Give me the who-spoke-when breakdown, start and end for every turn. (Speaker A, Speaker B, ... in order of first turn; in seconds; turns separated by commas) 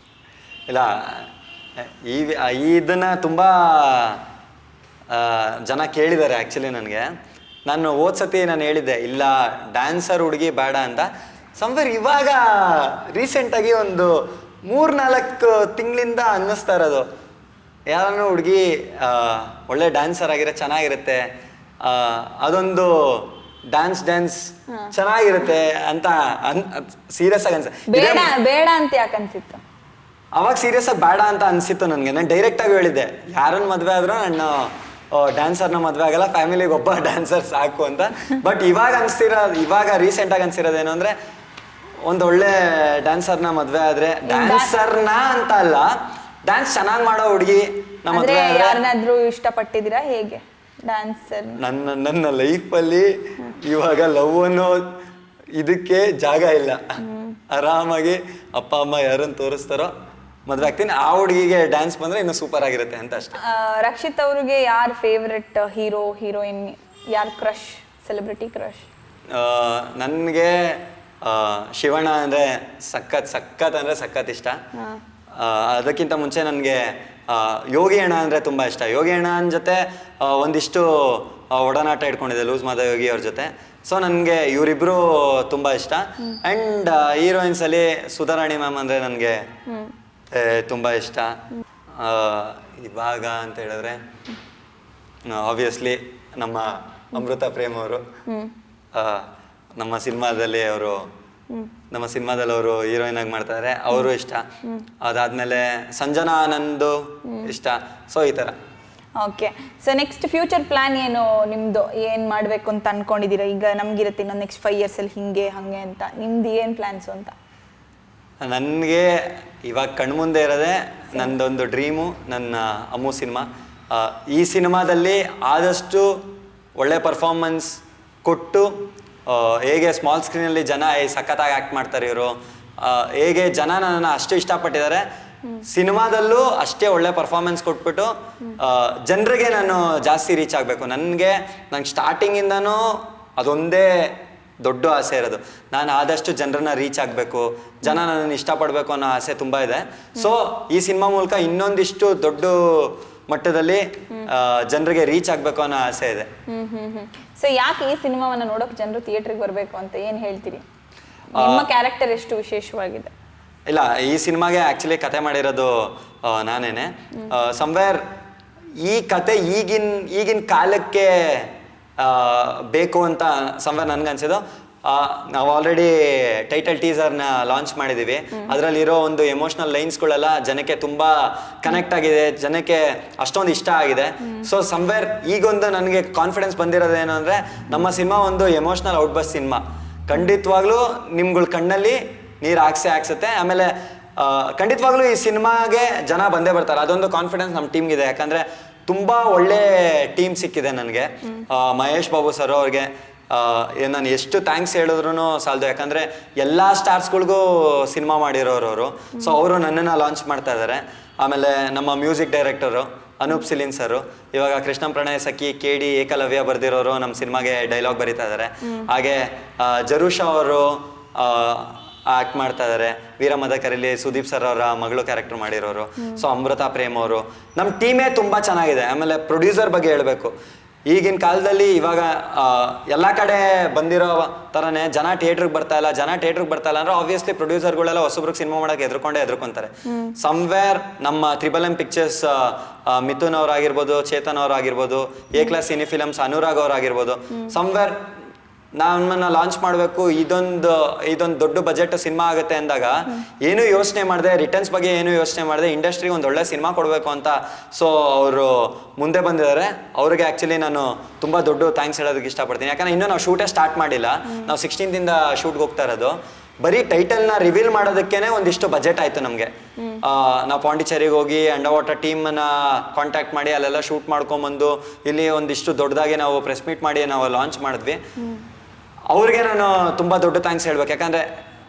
Speaker A: 0.7-1.3, Speaker A: 2.0-4.2, Speaker A: 5.1-7.1, Speaker A: 7.7-17.0, Speaker A: 17.9-21.2, Speaker A: 21.8-28.3, Speaker B: 27.9-29.6, Speaker A: 30.3-41.1, Speaker A: 42.0-45.9, Speaker B: 44.3-44.7, Speaker A: 46.5-48.8, Speaker B: 48.1-51.6, Speaker A: 51.6-54.9, Speaker A: 55.5-56.8, Speaker B: 57.0-57.4, Speaker A: 57.5-59.9, Speaker A: 60.5-63.4, Speaker B: 63.4-68.9, Speaker A: 69.3-74.6, Speaker B: 74.7-75.0, Speaker A: 75.3-89.4, Speaker A: 90.3-91.4, Speaker A: 92.0-94.0, Speaker A: 95.3-98.0, Speaker B: 98.3-98.5, Speaker A: 98.9-101.0, Speaker A: 101.9-104.4, Speaker A: 105.0-108.5, Speaker B: 107.2-107.5, Speaker B: 109.2-117.3, Speaker A: 118.4-119.1, Speaker A: 119.7-128.7, Speaker A: 129.3-135.0, Speaker A: 135.7-156.3, Speaker B: 156.5-160.6, Speaker B: 161.3-163.1, Speaker A: 161.4-161.7, Speaker A: 163.7-168.0, Speaker A: 168.8-230.3, Speaker A: 230.9-248.0, Speaker B: 239.9-240.1, Speaker A: 248.8-269.5, Speaker A: 270.0-278.0, Speaker A: 279.1-281.2